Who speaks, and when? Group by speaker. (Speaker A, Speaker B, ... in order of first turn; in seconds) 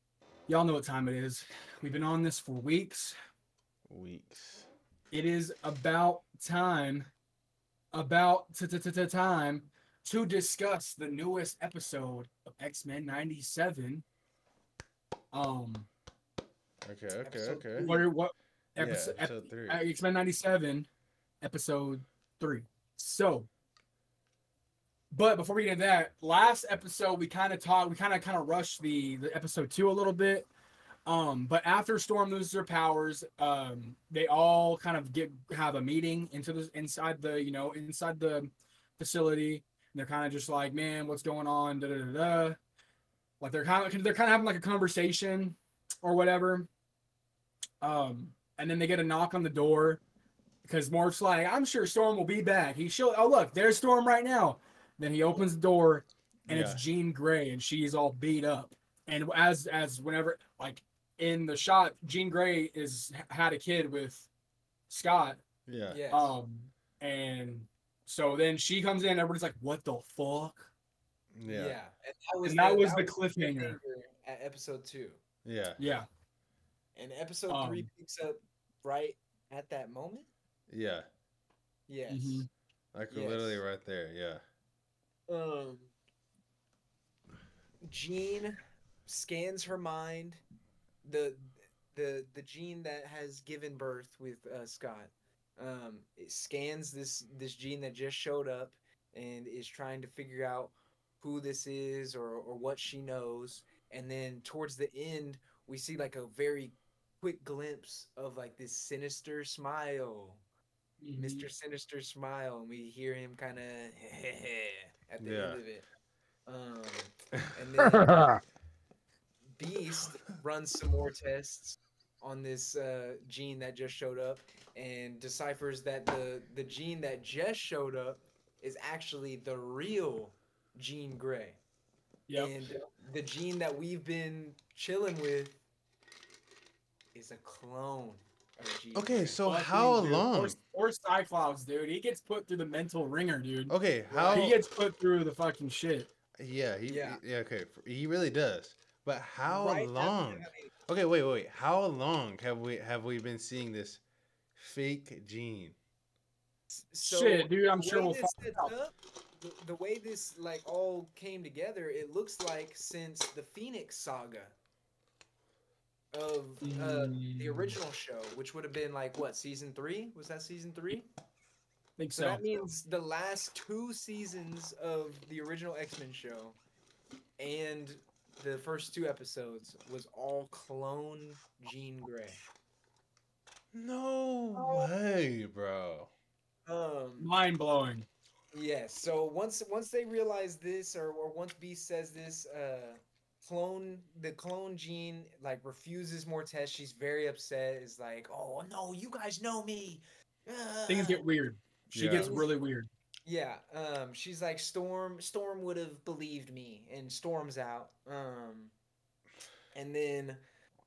Speaker A: 0.5-3.1, 5.1-7.1, 7.9-14.1, 15.3-15.9, 17.8-20.9, 21.4-23.5, 25.1-30.5, 31.1-42.6, 43.4-46.7, 47.8-50.0, 50.6-64.3, 64.9-65.4, 66.1-70.7, 72.5-73.8, 75.8-76.1, 77.5-77.9, 82.1-82.5, 111.0-111.5, 139.4-143.7, 144.3-146.1, 157.0-158.7, 166.6-167.8, 172.0-172.4, 187.2-188.1, 200.9-202.9
Speaker B: 3.9-4.7, 16.8-17.9, 18.8-19.8, 56.5-56.8, 65.7-66.0, 71.3-71.8, 75.4-75.8, 80.7-81.1, 82.9-84.4, 115.2-115.6, 138.9-140.6, 143.7-144.6, 146.4-154.0, 154.6-155.8, 183.7-186.1, 201.9-202.3
Speaker C: 17.2-18.1, 65.9-66.4, 71.5-75.2, 77.0-80.3, 81.9-82.5, 83.1-83.6, 85.3-85.9, 87.8-90.4, 91.0-110.4, 111.2-115.9, 116.5-118.3, 119.5-131.6, 132.3-135.6, 137.1-139.4, 144.1-144.5, 146.9-147.2, 149.4-150.7, 156.7-164.6, 166.1-171.1, 172.2-176.6, 177.4-182.4, 184.6-184.9, 186.7-187.3, 188.5-201.2, 202.1-202.5, 203.3-208.7, 209.7-210.4